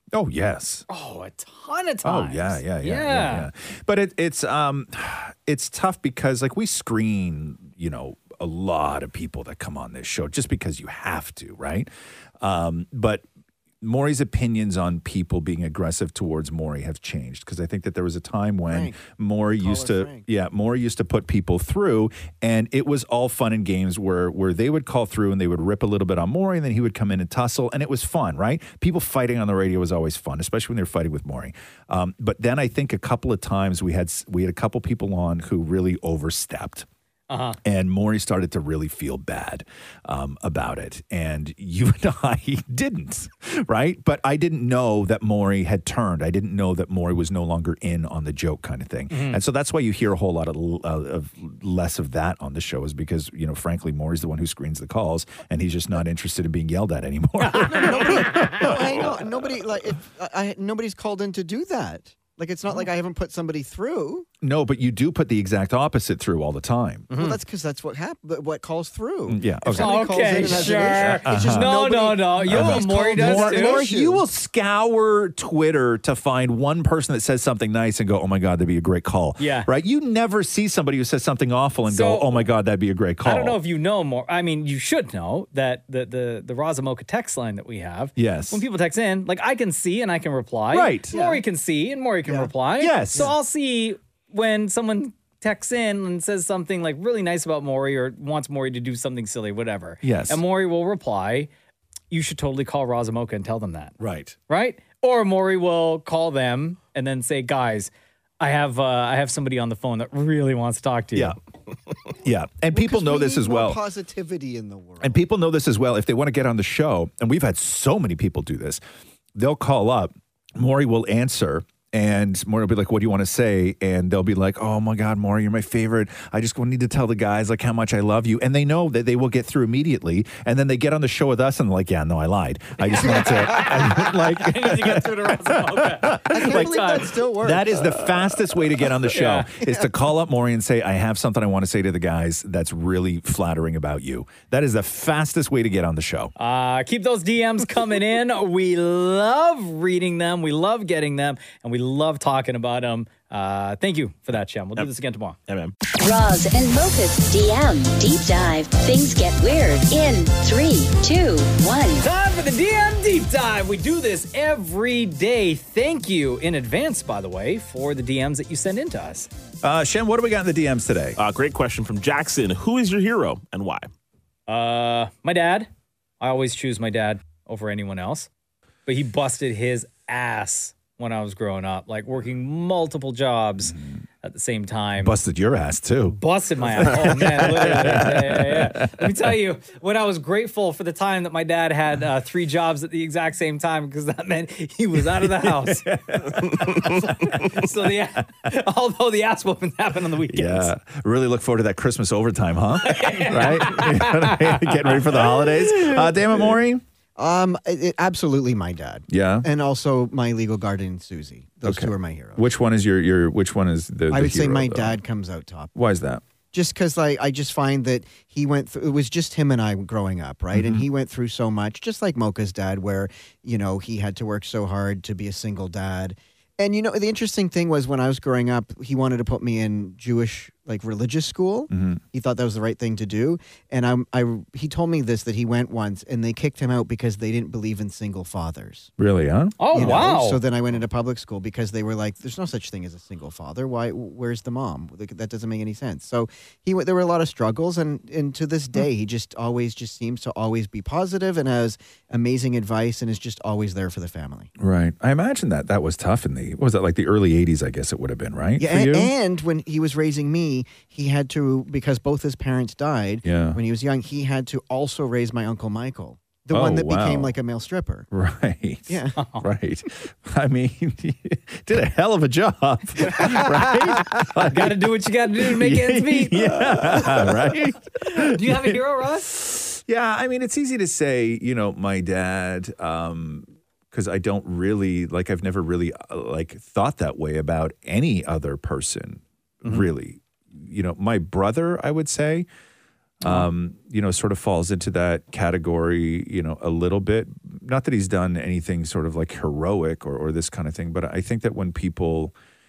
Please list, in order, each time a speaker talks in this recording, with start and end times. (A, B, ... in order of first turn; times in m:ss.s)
0:00.1-0:00.8 A
0:00.9-0:03.5 B
0:02.0-0:13.2 A
0:13.8-0:36.9 A
0:18.7-0:19.0 C
0:19.6-0:20.3 C
0:37.3-0:37.6 B
0:37.6-0:59.2 A
0:49.1-0:49.4 B
0:57.4-0:58.7 B
0:57.7-1:04.3 C
1:04.4-1:07.1 A
1:07.1-1:07.4 B
1:07.1-1:14.2 C
1:09.3-1:11.8 A
1:09.7-1:13.8 B
1:12.4-1:23.6 A
1:19.4-1:19.7 B
1:21.9-1:22.5 B
1:23.2-1:41.5 B
1:28.2-1:28.6 A
1:30.7-1:31.2 A
1:31.1-1:31.4 C
1:32.2-1:32.5 C
1:32.8-1:33.4 A
1:40.0-1:40.4 A
1:42.1-1:44.0 B
1:44.0-1:44.4 A
1:44.5-1:51.4 B
1:52.2-1:53.8 A
1:52.7-1:55.2 C
1:55.0-1:58.8 A
1:59.4-2:26.3 A
2:12.8-2:17.1 B
2:16.2-2:17.8 C
2:19.1-2:19.5 B
2:26.4-2:35.4 B
2:35.5-2:35.8 D
2:36.0-2:42.1 E
2:42.0-2:49.3 B
2:49.6-2:51.2 A
2:51.2-2:53.9 D
2:54.5-2:55.7 B
2:56.2-2:58.3 B
2:58.9-3:05.2 B
3:03.7-3:04.0 A
3:05.0-3:09.3 A
3:06.1-3:20.7 B
3:15.0-3:17.7 A
3:20.3-3:26.8 A
3:22.8-3:25.9 B
3:27.2-3:32.4 C
3:29.1-3:29.5 A
3:31.6-3:35.0 A
3:34.1-3:35.7 C
3:35.7-3:36.2 A
3:36.5-3:58.9 C
3:40.5-3:40.9 A
3:51.7-3:52.0 A
3:59.0-4:00.1 A
3:59.6-4:00.4 B
3:59.7-4:14.5 C
4:14.6-4:19.1 A
4:18.6-4:28.1 C
4:23.2-4:23.6 A
4:26.5-4:27.4 A
4:28.1-4:52.5 A
4:28.9-4:29.2 C
4:29.2-4:29.5 B
4:34.5-4:37.3 B
4:38.0-4:39.3 B
4:53.2-5:02.3 A